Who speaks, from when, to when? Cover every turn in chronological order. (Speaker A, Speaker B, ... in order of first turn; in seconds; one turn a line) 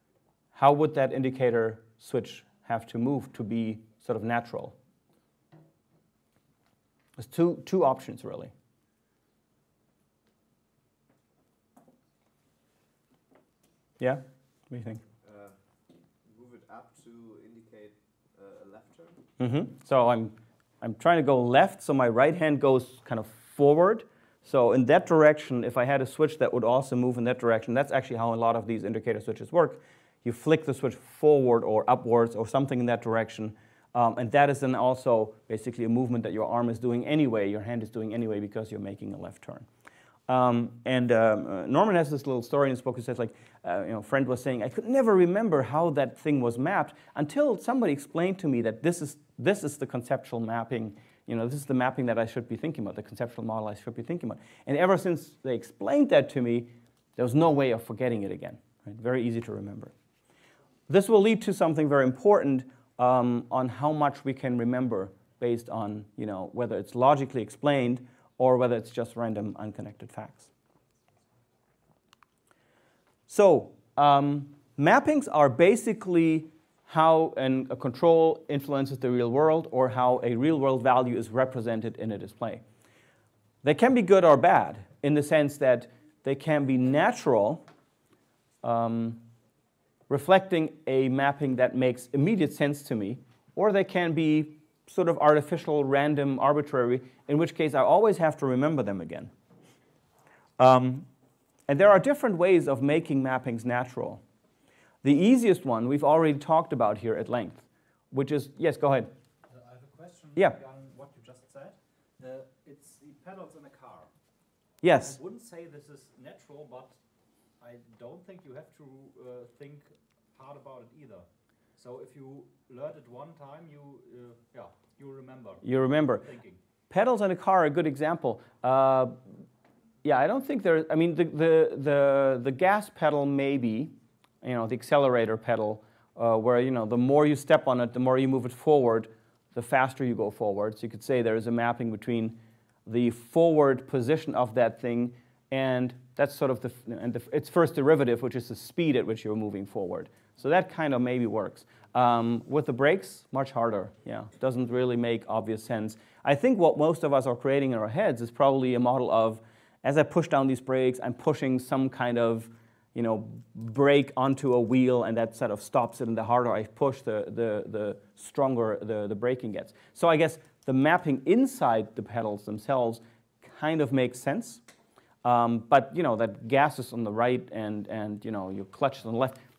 Speaker A: 0.5-4.8
Speaker A: 7.2-8.5
Speaker A: 14.0-15.0
Speaker B: 15.2-15.6
Speaker B: 16.2-19.2
Speaker A: 19.4-39.7
Speaker A: 40.3-59.9
Speaker A: 60.9-70.5
Speaker A: 73.3-82.6
Speaker A: 83.6-87.6
Speaker A: 88.6-89.2
Speaker A: 90.1-99.3
Speaker A: 100.6-101.1
Speaker A: 101.7-104.2
Speaker A: 105.0-109.1
Speaker C: 109.5-114.1
Speaker A: 114.8-115.2
Speaker C: 114.9-117.0
Speaker C: 117.6-125.6
Speaker A: 125.6-126.3
Speaker C: 126.2-126.6
Speaker A: 126.9-129.2
Speaker A: 130.0-174.6
Speaker A: 175.2-179.4